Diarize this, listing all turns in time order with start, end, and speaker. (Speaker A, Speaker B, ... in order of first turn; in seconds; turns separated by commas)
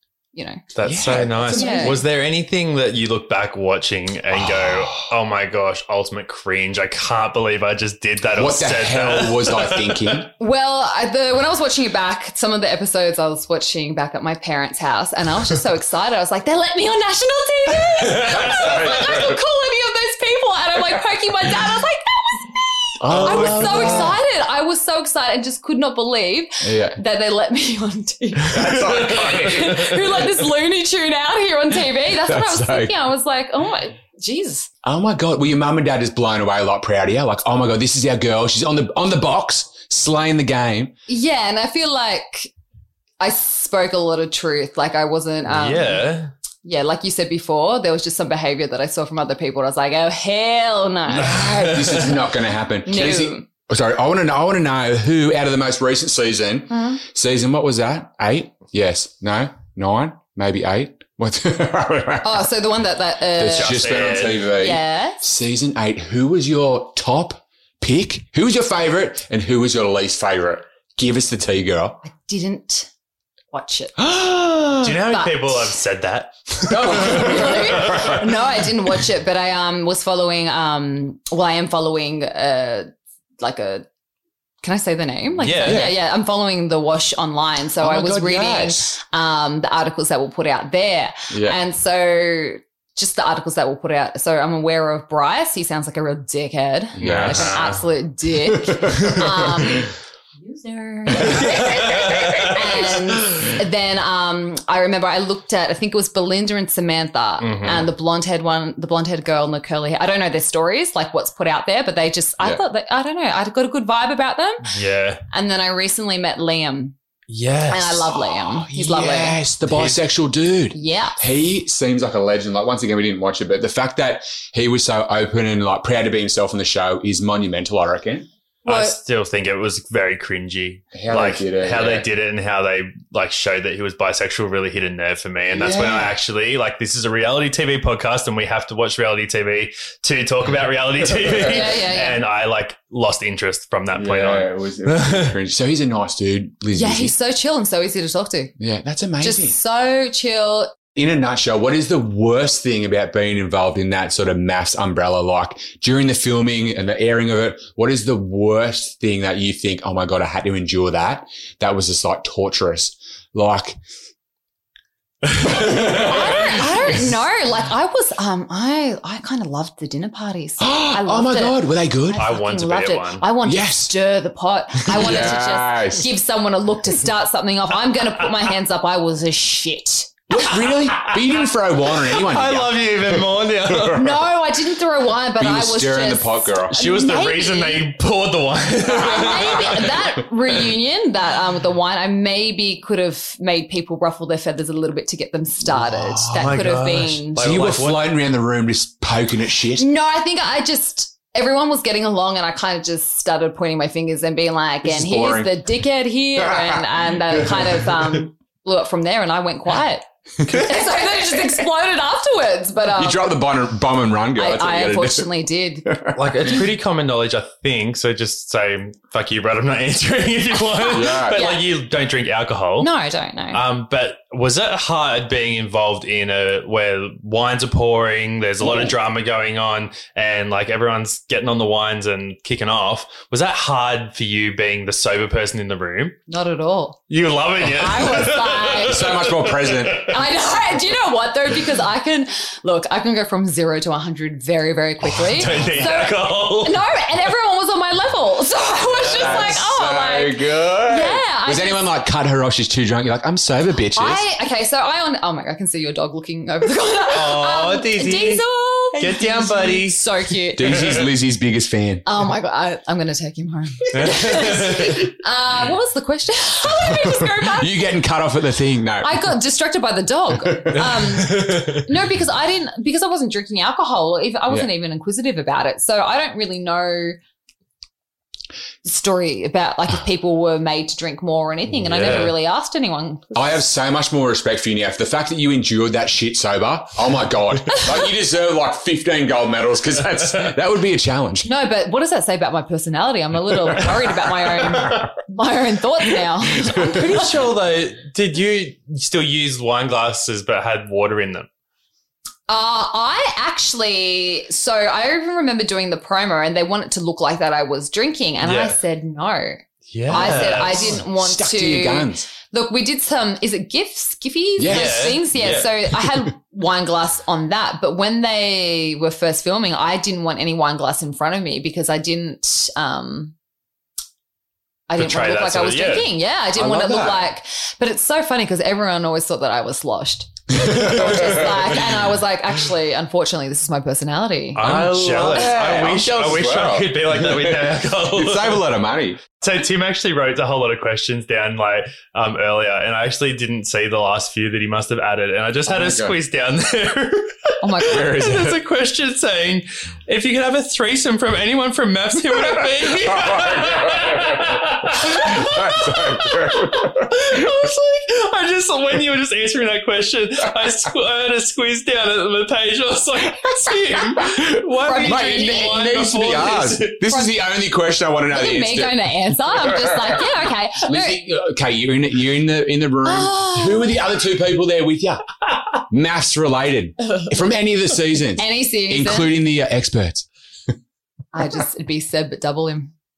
Speaker A: 0.3-0.6, Speaker B: 0.8-10.2, Speaker C: 0.8-2.0, Speaker A: 1.5-2.0, Speaker C: 4.3-5.1, Speaker C: 8.3-10.3, Speaker A: 10.4-34.7, Speaker C: 18.2-19.4, Speaker C: 23.0-24.2, Speaker B: 23.1-24.1, Speaker C: 26.6-27.0, Speaker C: 28.5-30.2, Speaker C: 32.2-33.0, Speaker C: 34.8-41.0, Speaker A: 41.1-42.5, Speaker A: 43.2-46.0, Speaker B: 45.5-46.3, Speaker A: 46.6-51.4, Speaker C: 51.1-62.5, Speaker B: 51.1-52.1, Speaker A: 52.9-53.5, Speaker A: 56.7-57.0, Speaker A: 62.2-65.2, Speaker C: 63.4-72.0, Speaker B: 63.5-64.5, Speaker A: 72.0-72.9, Speaker A: 73.5-74.0, Speaker C: 74.0-75.0, Speaker B: 74.8-78.2, Speaker A: 75.1-75.7, Speaker C: 76.7-78.5, Speaker A: 76.9-83.9, Speaker A: 84.6-114.7, Speaker B: 85.4-85.9, Speaker C: 85.6-86.0, Speaker C: 87.8-89.0, Speaker C: 91.3-91.6, Speaker C: 97.0-97.7, Speaker B: 97.0-97.8, Speaker C: 98.4-99.8, Speaker B: 101.2-102.9, Speaker B: 107.4-107.9, Speaker B: 114.7-115.2, Speaker A: 115.3-117.0, Speaker B: 117.3-118.1, Speaker A: 117.7-119.4, Speaker C: 118.1-128.3, Speaker B: 119.7-120.0, Speaker A: 120.7-121.2, Speaker A: 128.7-129.0, Speaker B: 128.7-145.4, Speaker C: 130.9-132.1, Speaker C: 135.6-136.1, Speaker C: 141.1-141.6, Speaker A: 141.4-142.2, Speaker C: 144.0-147.2, Speaker A: 146.8-148.5, Speaker C: 148.6-149.6, Speaker A: 149.2-150.7, Speaker C: 150.9-163.8, Speaker B: 165.3-166.6, Speaker C: 165.4-167.0, Speaker A: 165.5-180.5, Speaker C: 170.6-172.3, Speaker B: 172.2-173.2, Speaker C: 173.4-173.9, Speaker C: 174.9-176.1, Speaker B: 175.0-175.3, Speaker C: 180.3-183.2, Speaker B: 180.9-181.2, Speaker B: 182.1-184.2, Speaker C: 183.7-184.0, Speaker A: 183.9-187.8, Speaker C: 185.4-186.9, Speaker B: 186.8-189.9, Speaker A: 188.9-197.4, Speaker C: 189.2-189.8, Speaker C: 195.7-196.5, Speaker B: 196.2-198.1, Speaker C: 197.4-199.9, Speaker A: 199.8-213.2, Speaker C: 204.8-205.6, Speaker C: 206.4-207.8, Speaker C: 210.4-211.4, Speaker C: 212.9-215.3, Speaker A: 214.4-216.0, Speaker C: 215.9-216.6, Speaker B: 216.2-222.9, Speaker A: 220.7-221.7, Speaker C: 220.9-221.4, Speaker A: 222.8-223.6, Speaker B: 223.5-236.2, Speaker A: 236.3-237.0, Speaker B: 237.1-240.1, Speaker A: 237.7-239.1, Speaker C: 238.8-240.1, Speaker A: 240.0-251.8, Speaker B: 245.0-246.8, Speaker B: 248.9-249.6, Speaker C: 249.1-254.2, Speaker A: 253.9-260.9, Speaker B: 257.1-260.0, Speaker C: 260.6-262.1, Speaker B: 260.6-261.0, Speaker A: 262.1-267.8, Speaker B: 263.9-265.1, Speaker C: 266.6-269.3, Speaker A: 269.0-277.2, Speaker C: 270.4-270.8, Speaker B: 270.9-271.8, Speaker A: 278.9-283.6, Speaker B: 281.9-282.4, Speaker C: 281.9-282.3, Speaker C: 283.4-291.5, Speaker A: 291.4-297.3, Speaker C: 294.6-295.1, Speaker C: 296.6-297.3, Speaker B: 296.8-301.5, Speaker A: 302.5-323.4, Speaker B: 308.4-308.8, Speaker B: 309.9-311.0, Speaker C: 310.1-312.3, Speaker C: 314.6-315.2, Speaker B: 314.7-315.7, Speaker A: 324.9-335.6, Speaker B: 325.0-326.1, Speaker C: 326.6-327.2, Speaker C: 330.6-331.7, Speaker B: 334.6-338.7, Speaker C: 334.6-339.2, Speaker B: 339.4-367.0, Speaker C: 345.7-346.2, Speaker A: 347.6-348.1, Speaker C: 347.8-348.6, Speaker C: 353.0-357.1, Speaker A: 363.7-364.3, Speaker C: 364.2-375.2, Speaker A: 364.8-366.0, Speaker A: 368.3-371.2, Speaker A: 373.0-374.0, Speaker C: 375.7-380.3, Speaker A: 378.4-379.3, Speaker A: 381.3-382.9